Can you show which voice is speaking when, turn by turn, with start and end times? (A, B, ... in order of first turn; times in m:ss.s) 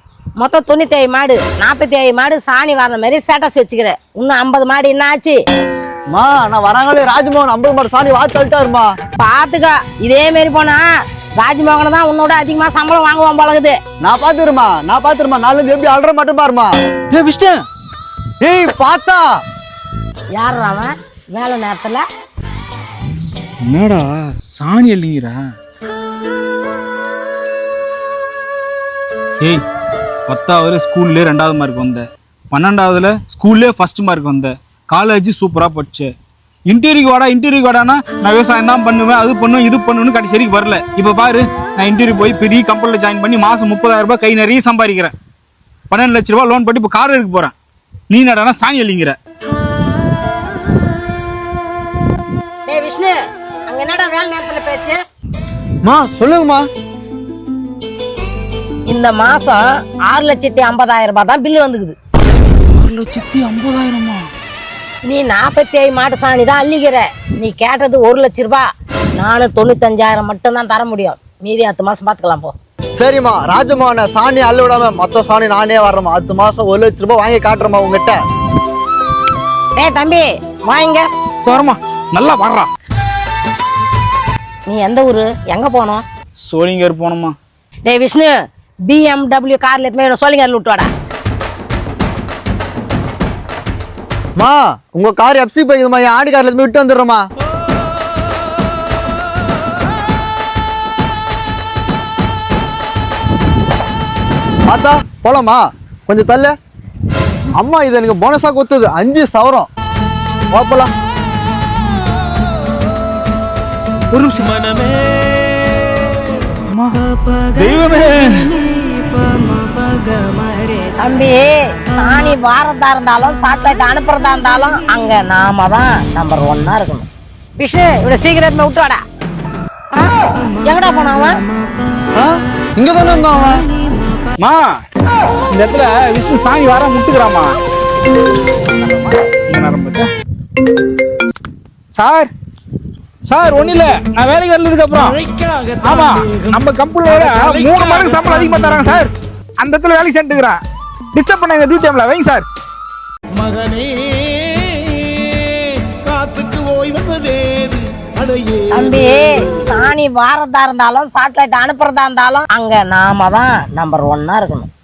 0:00.4-0:05.4 A
0:06.1-0:08.9 B
0:09.2-0:10.8 A
0:11.4-0:13.8 A
0:14.0-0:16.7 B
0:17.1-0:17.6 C
0:18.4-0:19.2 B
0:20.3-0:22.0 A
0:23.6-0:25.4 C
0:30.3-0:36.1 C
0:36.7-0:45.1 C
0:45.9-0:47.5 C
0:48.1-0:49.2 C
0:52.6-0:53.2 A
0:53.7-0:55.0 A
0:55.8-0:56.6 B
0:58.9-1:01.9 A
1:02.7-1:04.2 C
1:05.0-1:12.5 A
1:13.0-1:18.2 B
1:19.8-1:21.1 A
1:21.4-1:22.7 C
1:24.6-1:26.0 A
1:26.4-1:27.4 C
1:27.8-1:28.3 A
1:28.9-1:30.9 A
1:34.4-1:37.2 B
1:44.7-1:46.5 B
1:47.5-1:49.7 B
1:50.5-1:50.9 B
1:54.1-1:54.5 C
1:54.5-1:56.3 D
1:56.6-1:58.8 C
2:00.9-2:07.1 A
2:07.6-2:09.0 A
2:09.9-2:11.4 A
2:12.1-2:13.6 B
2:14.4-2:14.7 C
2:15.5-2:17.5 C
2:18.8-2:20.1 C
2:21.9-2:22.3 C
2:23.2-2:25.2 C
2:25.3-2:26.1 D
2:25.8-2:30.6 C
2:31.1-2:32.4 C
2:33.3-2:38.7 D
2:38.7-2:44.7 A